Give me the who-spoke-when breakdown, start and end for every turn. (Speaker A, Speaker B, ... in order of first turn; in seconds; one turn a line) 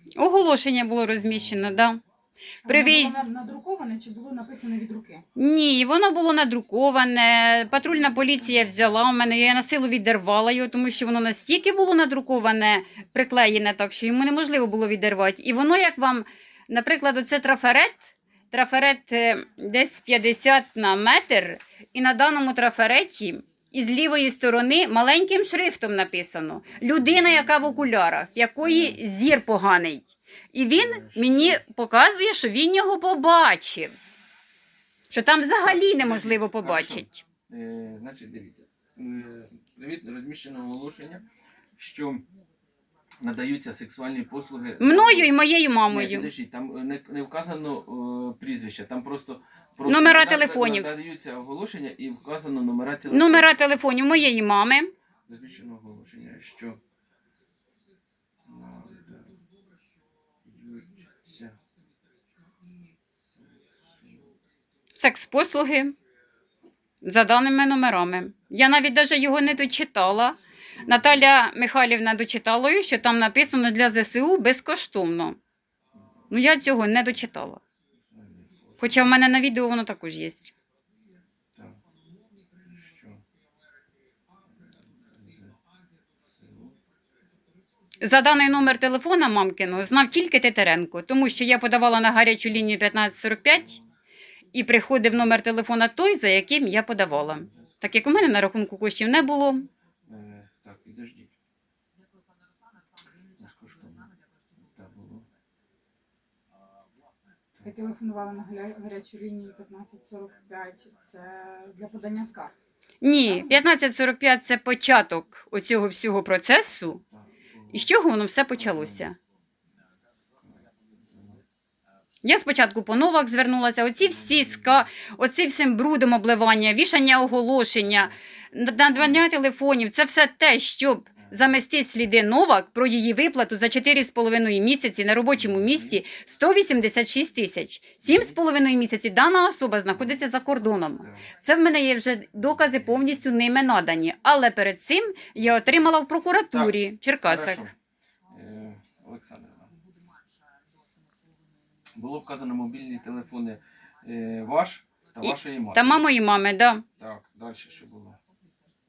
Speaker A: 0.2-2.0
Speaker A: 2.6-3.2
Speaker B: 2.6-5.2
Speaker A: 5.3-33.9
Speaker C: 7.8-9.3
Speaker C: 26.9-27.9
Speaker C: 28.6-29.0
Speaker C: 30.7-31.6
Speaker A: 35.1-37.2
Speaker C: 35.6-41.2
Speaker C: 41.8-42.2
Speaker C: 43.2-45.3
Speaker A: 44.8-46.3
Speaker C: 45.9-54.3
Speaker A: 49.9-50.9
Speaker A: 53.1-54.9
Speaker C: 55.3-56.8
Speaker C: 58.4-59.4
Speaker C: 60.4-61.5
Speaker C: 63.2-64.3
Speaker A: 65.0-65.9
Speaker A: 67.0-75.4
Speaker C: 70.8-71.3
Speaker A: 76.3-77.6
Speaker C: 78.0-79.2
Speaker A: 78.8-80.5
Speaker C: 81.5-81.8
Speaker C: 82.6-83.2
Speaker C: 84.5-85.6
Speaker C: 86.2-86.8
Speaker A: 88.0-93.8
Speaker C: 93.5-93.8
Speaker A: 94.5-99.7
Speaker C: 97.2-98.4
Speaker C: 100.0-101.3
Speaker C: 103.4-105.3
Speaker B: 107.6-112.5
Speaker A: 113.0-117.0
Speaker B: 113.2-113.6
Speaker C: 117.1-117.9
Speaker A: 117.7-119.2
Speaker C: 118.5-119.1
Speaker C: 120.4-121.4
Speaker A: 122.2-147.6
Speaker C: 124.0-124.9
Speaker C: 127.8-128.1
Speaker C: 128.9-129.2
Speaker C: 131.2-131.6
Speaker C: 135.3-136.0
Speaker C: 138.0-138.4
Speaker C: 141.0-141.3
Speaker C: 142.5-143.2
Speaker C: 145.3-145.9
Speaker C: 146.5-147.7
Speaker C: 148.3-149.7
Speaker C: 151.9-156.1
Speaker A: 155.2-156.8
Speaker C: 157.0-158.2